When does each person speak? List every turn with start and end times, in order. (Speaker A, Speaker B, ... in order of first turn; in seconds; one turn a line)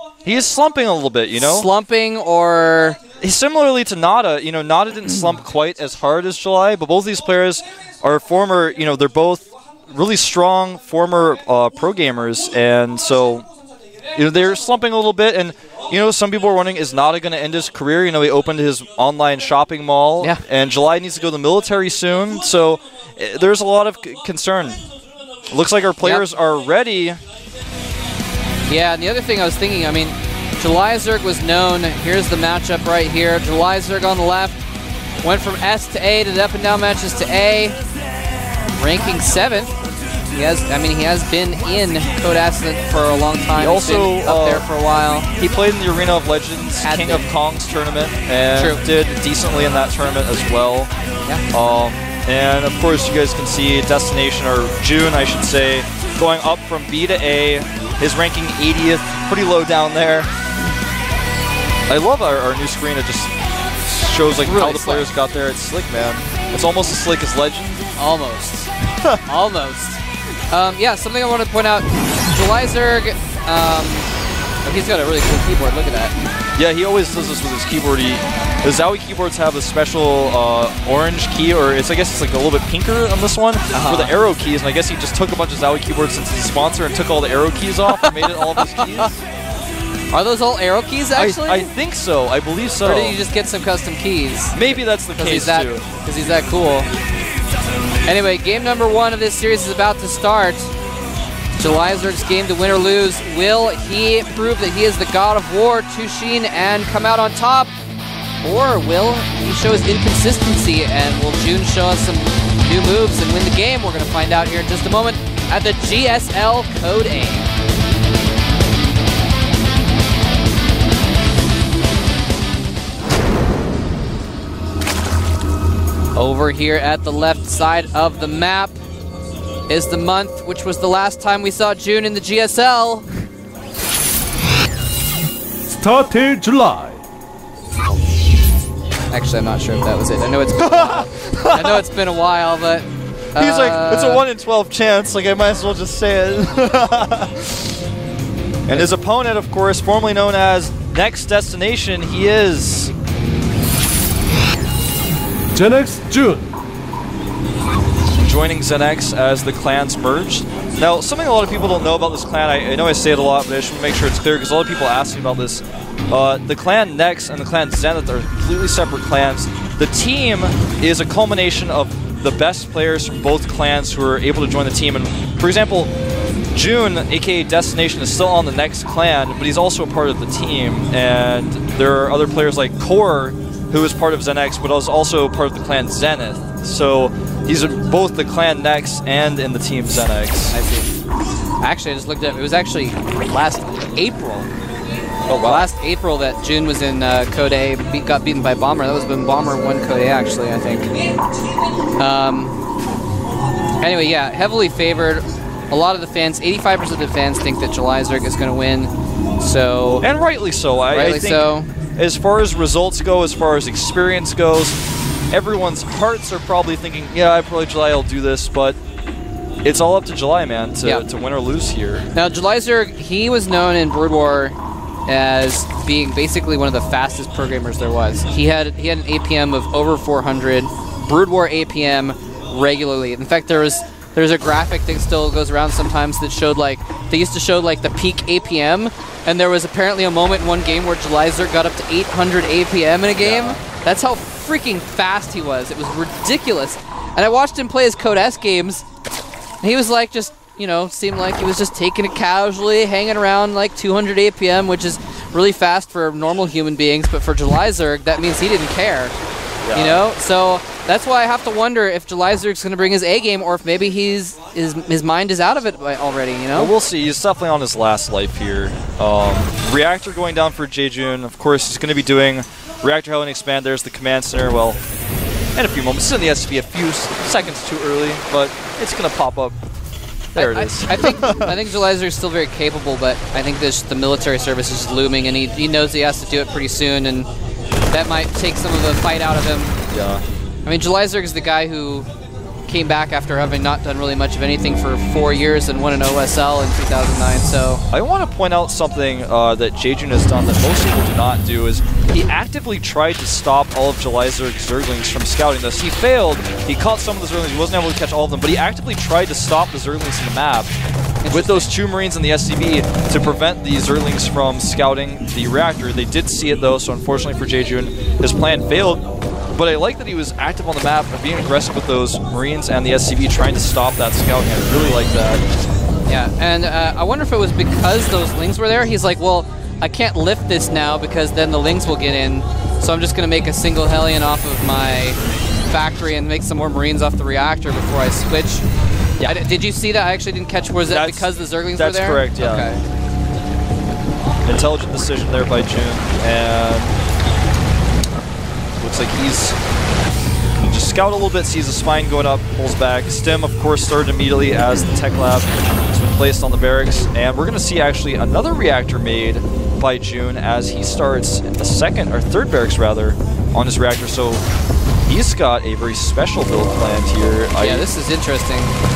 Speaker A: 0.2-1.7
Speaker B: 1.4-3.0
Speaker A: 3.2-13.5
Speaker A: 14.1-24.8
Speaker A: 25.5-27.2
Speaker B: 28.7-34.6
Speaker B: 35.2-37.8
Speaker B: 38.7-39.7
Speaker B: 40.3-45.3
Speaker A: 43.5-44.6
Speaker A: 45.4-50.9
Speaker B: 46.8-47.3
Speaker B: 48.5-48.8
Speaker A: 51.5-60.3
Speaker A: 61.9-67.9
Speaker B: 64.4-65.0
Speaker B: 68.0-68.7
Speaker B: 69.2-74.1
Speaker B: 74.6-76.2
Speaker A: 76.5-89.2
Speaker B: 83.7-84.1
Speaker B: 87.9-89.1
Speaker B: 90.1-91.7
Speaker A: 91.1-93.2
Speaker B: 92.8-96.9
Speaker A: 94.5-95.8
Speaker B: 98.0-100.7
Speaker B: 101.6-107.7
Speaker B: 108.4-117.5
Speaker B: 126.1-128.8
Speaker B: 129.7-133.1
Speaker C: 135.7-137.0
Speaker B: 139.1-144.2
Speaker A: 140.6-141.8
Speaker A: 143.3-147.8
Speaker A: 148.7-152.9
Speaker C: 155.5-156.5
Speaker A: 158.2-175.9
Speaker A: 176.5-190.6
Speaker B: 190.5-190.9
Speaker B: 191.6-194.5
Speaker A: 195.3-195.7
Speaker B: 195.4-200.9
Speaker B: 202.0-202.6
Speaker B: 203.8-210.1
Speaker A: 210.0-214.8
Speaker B: 210.9-211.7
Speaker A: 215.3-218.8
Speaker A: 219.6-222.1
Speaker B: 222.1-248.8
Speaker A: 243.2-243.6
Speaker B: 249.6-259.1
Speaker A: 259.6-260.0
Speaker B: 259.7-266.7
Speaker A: 266.5-274.8
Speaker A: 275.5-279.6
Speaker A: 280.3-281.6
Speaker B: 280.4-287.3
Speaker B: 287.9-289.8
Speaker A: 289.9-290.2
Speaker B: 290.6-292.1
Speaker B: 292.7-297.8
Speaker A: 297.9-310.7
Speaker B: 311.2-311.7
Speaker A: 311.3-325.4
Speaker B: 326.1-338.6
Speaker B: 339.2-342.8
Speaker A: 340.9-342.7
Speaker A: 344.4-346.9
Speaker A: 348.8-349.6
Speaker A: 350.6-364.4
Speaker A: 365.1-367.9
Speaker B: 367.6-368.7